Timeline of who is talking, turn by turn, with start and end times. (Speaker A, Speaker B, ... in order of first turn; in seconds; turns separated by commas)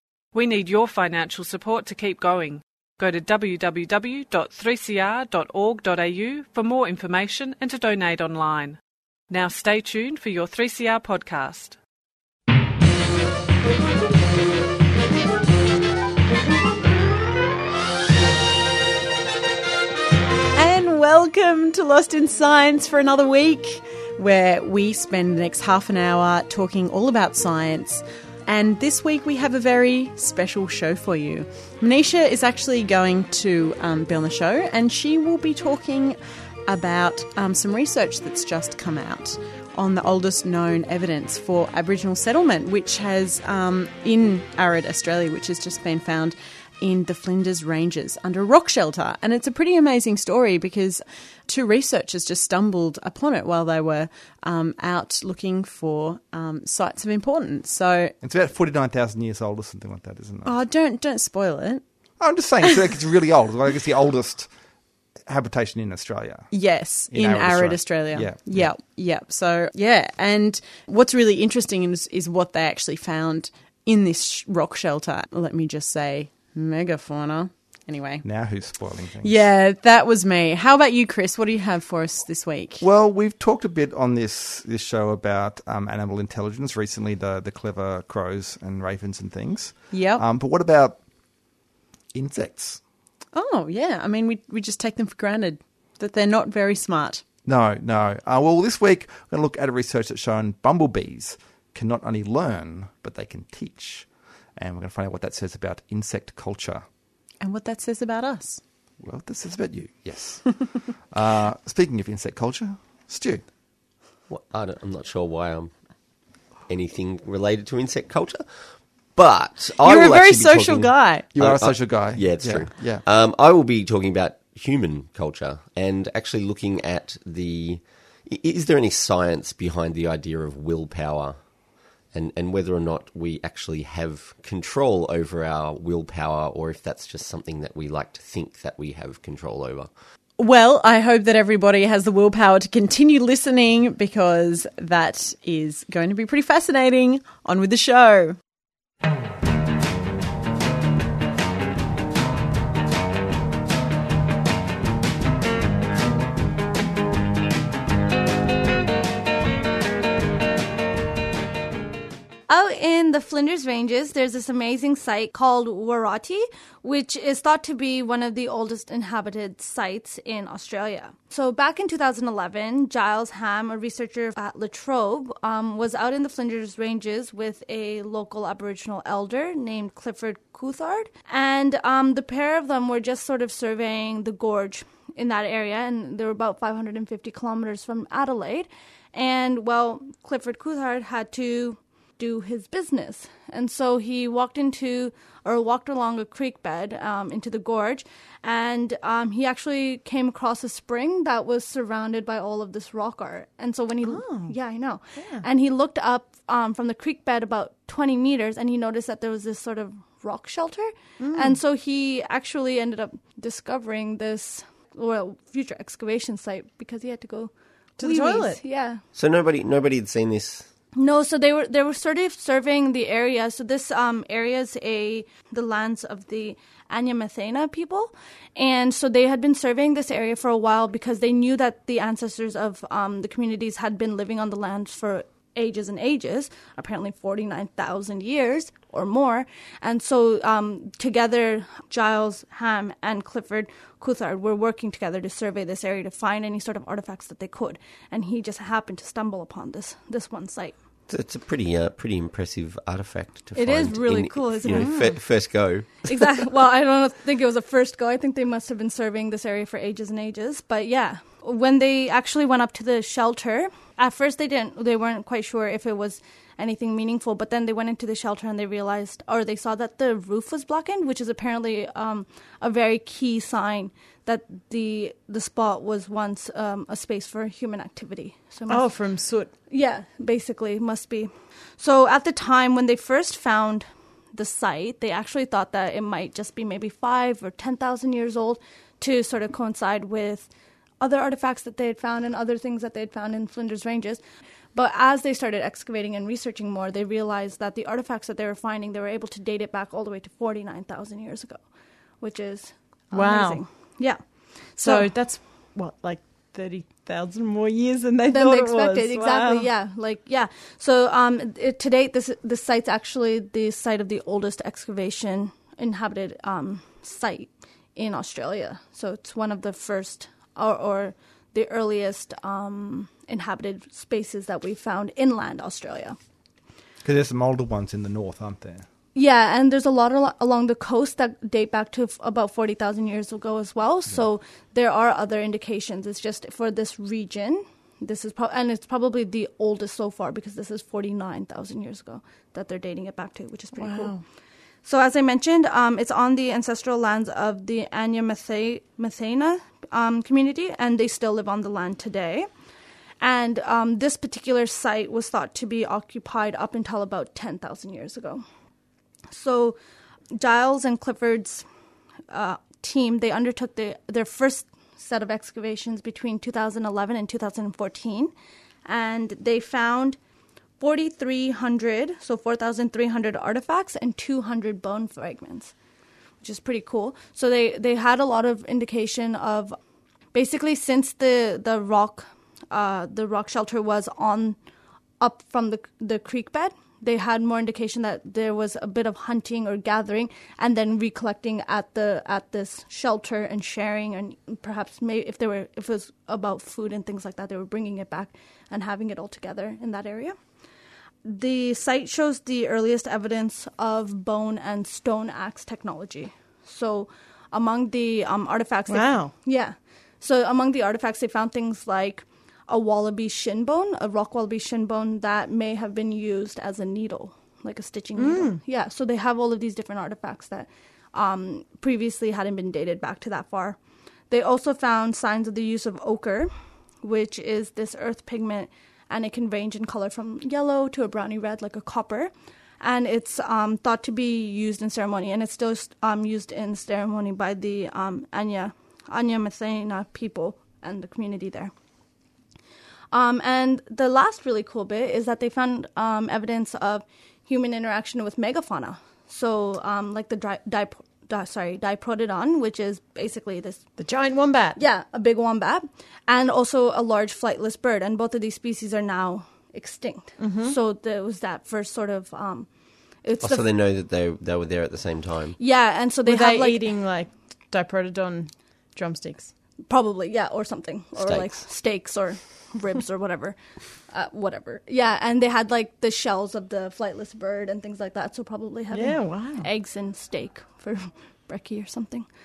Speaker A: 0.3-8.8, Speaker A: 9.3-11.8, Speaker B: 20.5-58.1, Speaker C: 58.2-60.5, Speaker B: 60.4-61.8, Speaker C: 62.2-64.5, Speaker C: 65.2-66.5, Speaker B: 66.5-78.2, Speaker C: 67.1-68.7, Speaker C: 78.2-79.5, Speaker B: 79.2-82.8, Speaker C: 82.8-91.0, Speaker B: 89.9-90.2, Speaker C: 92.1-92.8, Speaker B: 93.3-97.2, Speaker C: 97.4-106.8, Speaker B: 107.4-108.6, Speaker C: 109.0-113.4, Speaker D: 114.3-115.7, Speaker D: 116.7-131.4, Speaker B: 119.8-121.2, Speaker C: 121.3-123.0, Speaker D: 132.1-139.9, Speaker B: 140.4-148.4, Speaker E: 162.5-219.0, Speaker B: 204.1-204.5, Speaker B: 205.2-205.4, Speaker B: 211.2-211.6, Speaker B: 218.0-218.6, Speaker D: 219.1-220.7, Speaker E: 220.9-250.8, Speaker D: 251.1-256.1, Speaker E: 253.5-255.2, Speaker B: 254.7-255.1, Speaker E: 256.0-278.9, Speaker B: 278.7-279.5, Speaker E: 279.7-290.5, Speaker E: 291.0-294.2, Speaker E: 294.7-301.6, Speaker E: 302.2-305.1, Speaker B: 303.1-303.6, Speaker B: 304.8-309.7, Speaker E: 308.3-326.2, Speaker C: 327.0-328.9, Speaker E: 329.1-344.1, Speaker B: 343.8-344.2, Speaker E: 344.8-352.5, Speaker E: 353.2-358.4, Speaker E: 359.3-359.8, Speaker E: 360.3-361.6, Speaker E: 362.3-368.3, Speaker E: 368.9-370.2, Speaker E: 370.8-375.7, Speaker E: 376.4-379.8, Speaker E: 380.3-384.6, Speaker E: 385.2-400.4, Speaker E: 401.2-423.8, Speaker B: 408.9-409.3, Speaker B: 418.2-418.6, Speaker E: 424.3-441.7, Speaker E: 443.1-453.9, Speaker B: 454.0-454.8, Speaker E: 454.8-462.7, Speaker B: 460.4-460.8, Speaker E: 463.2-463.7, Speaker D: 463.4-465.6, Speaker E: 465.6-466.8, Speaker B: 466.2-469.5, Speaker E: 469.9-482.3, Speaker D: 471.2-471.6, Speaker B: 478.9-479.7